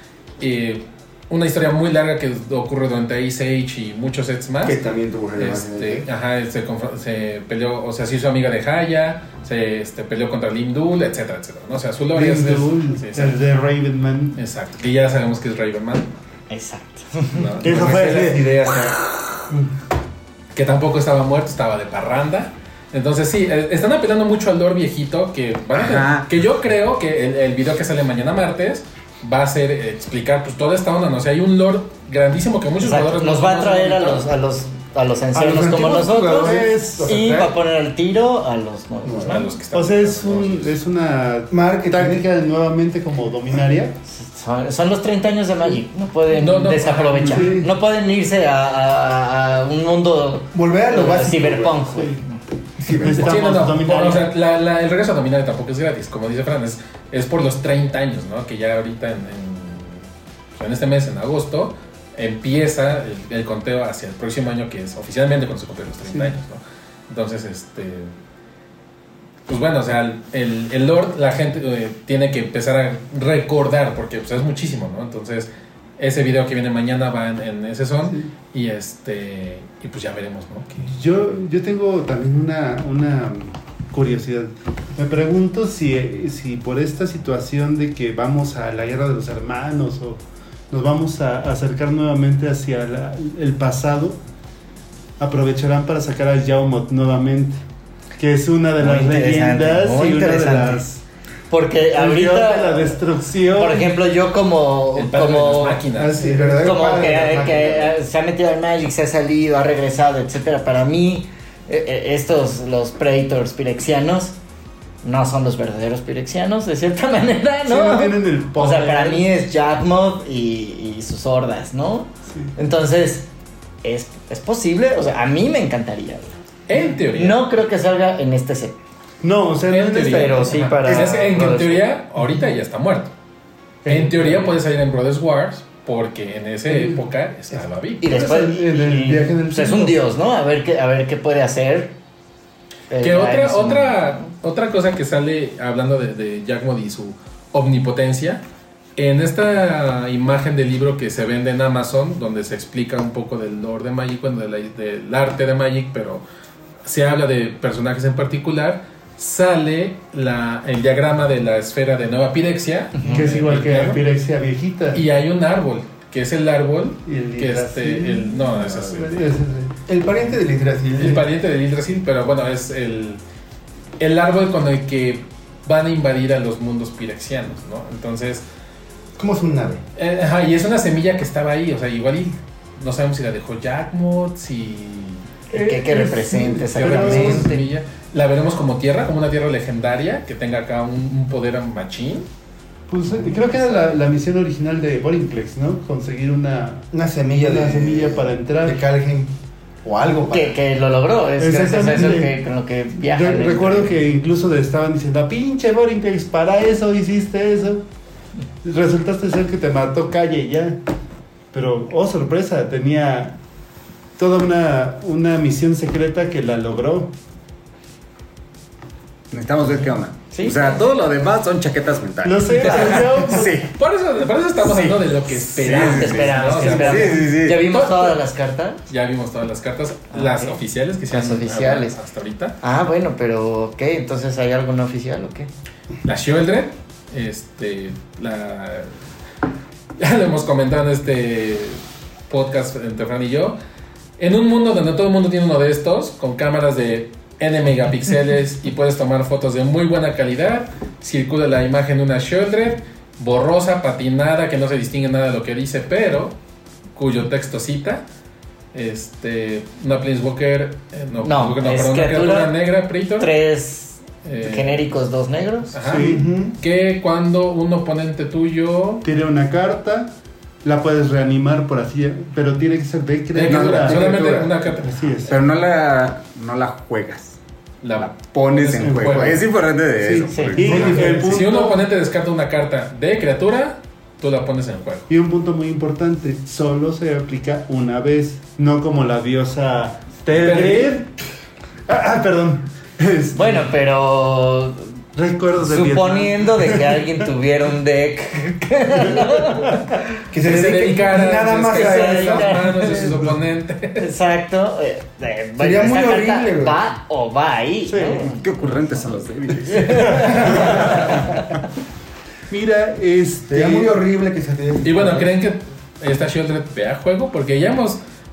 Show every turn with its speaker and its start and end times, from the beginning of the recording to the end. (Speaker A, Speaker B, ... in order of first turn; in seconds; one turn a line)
Speaker A: 0.4-4.8
Speaker B: 4.6-6.1
Speaker A: 5.4-13.4
Speaker C: 12.1-14.4
Speaker A: 14.3-16.1
Speaker D: 16.5-17.5
Speaker A: 17.3-18.4
Speaker B: 17.6-19.0
Speaker C: 17.6-18.4
Speaker A: 20.5-34.2
Speaker E: 25.7-26.3
Speaker D: 32.8-39.5
Speaker B: 35.3-37.5
Speaker C: 36.4-37.4
Speaker B: 39.0-39.4
Speaker A: 39.2-40.8
Speaker C: 39.7-44.0
Speaker B: 41.5-42.2
Speaker D: 44.1-52.4
Speaker A: 46.3-47.6
Speaker C: 47.3-47.7
Speaker B: 50.5-51.9
Speaker C: 51.9-52.2
Speaker B: 52.8-53.7
Speaker C: 52.9-54.3
Speaker A: 53.0-68.1
Speaker A: 69.5-80.9
Speaker C: 80.8-94.2
Speaker C: 95.2-97.6
Speaker C: 98.2-101.0
Speaker D: 98.8-100.8
Speaker D: 101.5-103.0
Speaker C: 101.9-103.9
Speaker D: 103.5-105.8
Speaker A: 104.9-106.3
Speaker C: 106.0-106.6
Speaker B: 106.0-107.9
Speaker D: 106.6-114.3
Speaker D: 115.0-123.3
Speaker C: 117.6-119.3
Speaker D: 123.8-126.3
Speaker A: 126.7-127.4
Speaker D: 127.1-128.8
Speaker C: 129.2-131.2
Speaker A: 129.7-133.1
Speaker D: 130.0-131.8
Speaker C: 133.8-134.5
Speaker A: 133.8-138.0
Speaker C: 136.7-137.0
Speaker D: 138.0-142.0
Speaker C: 138.0-139.3
Speaker B: 138.1-140.0
Speaker D: 142.9-144.3
Speaker A: 143.0-148.4
Speaker A: 148.9-156.2
Speaker A: 156.8-164.0
Speaker D: 163.0-163.3
Speaker C: 163.1-165.0
Speaker A: 164.9-169.3
Speaker C: 167.1-169.8
Speaker B: 169.9-171.3
Speaker A: 171.0-173.2
Speaker A: 174.0-178.4
Speaker B: 179.2-179.8
Speaker A: 179.9-185.3
Speaker C: 185.5-187.5
Speaker D: 185.5-187.6
Speaker A: 186.7-192.3
Speaker C: 192.9-198.8
Speaker A: 193.2-193.9
Speaker B: 196.9-199.3
Speaker B: 199.8-200.6
Speaker D: 200.3-204.0
Speaker C: 201.4-202.3
Speaker C: 203.0-207.8
Speaker C: 208.6-210.8
Speaker C: 211.5-213.4
Speaker C: 214.2-217.1
Speaker E: 219.3-223.8
Speaker D: 220.3-220.8
Speaker C: 222.2-223.6
Speaker A: 222.6-228.2
Speaker E: 224.6-227.7
Speaker D: 225.7-228.8
Speaker A: 228.9-232.6
Speaker D: 230.1-230.6
Speaker D: 231.1-232.0
Speaker D: 232.6-235.5
Speaker A: 236.0-238.9
Speaker A: 240.0-243.6
Speaker A: 244.2-256.4
Speaker A: 256.9-258.0
Speaker A: 258.7-263.3
Speaker D: 261.2-262.6
Speaker D: 263.2-265.7
Speaker A: 264.2-264.9
Speaker A: 265.7-269.1
Speaker C: 265.8-266.3
Speaker B: 265.9-266.6
Speaker C: 269.0-270.1
Speaker C: 270.6-275.4
Speaker A: 273.3-274.9
Speaker E: 273.4-274.4
Speaker E: 275.2-277.4
Speaker A: 277.8-279.4
Speaker E: 278.0-281.3
Speaker C: 278.8-279.4
Speaker C: 280.0-281.9
Speaker D: 280.2-281.2
Speaker B: 280.6-281.2
Speaker A: 280.7-285.1
Speaker C: 285.1-291.2
Speaker A: 290.3-290.9
Speaker C: 291.9-293.7
Speaker D: 293.3-294.9
Speaker C: 295.1-297.1
Speaker D: 295.6-300.0
Speaker B: 300.3-303.1
Speaker A: 300.4-304.1
Speaker D: 301.7-302.9
Speaker C: 302.6-303.3
Speaker D: 304.0-308.4
Speaker B: 305.6-306.8
Speaker C: 307.9-308.3
Speaker E: 308.2-311.2
Speaker D: 309.7-311.4
Speaker C: 310.0-311.1
Speaker C: 312.5-314.0
Speaker B: 313.5-315.3
Speaker A: 314.8-318.0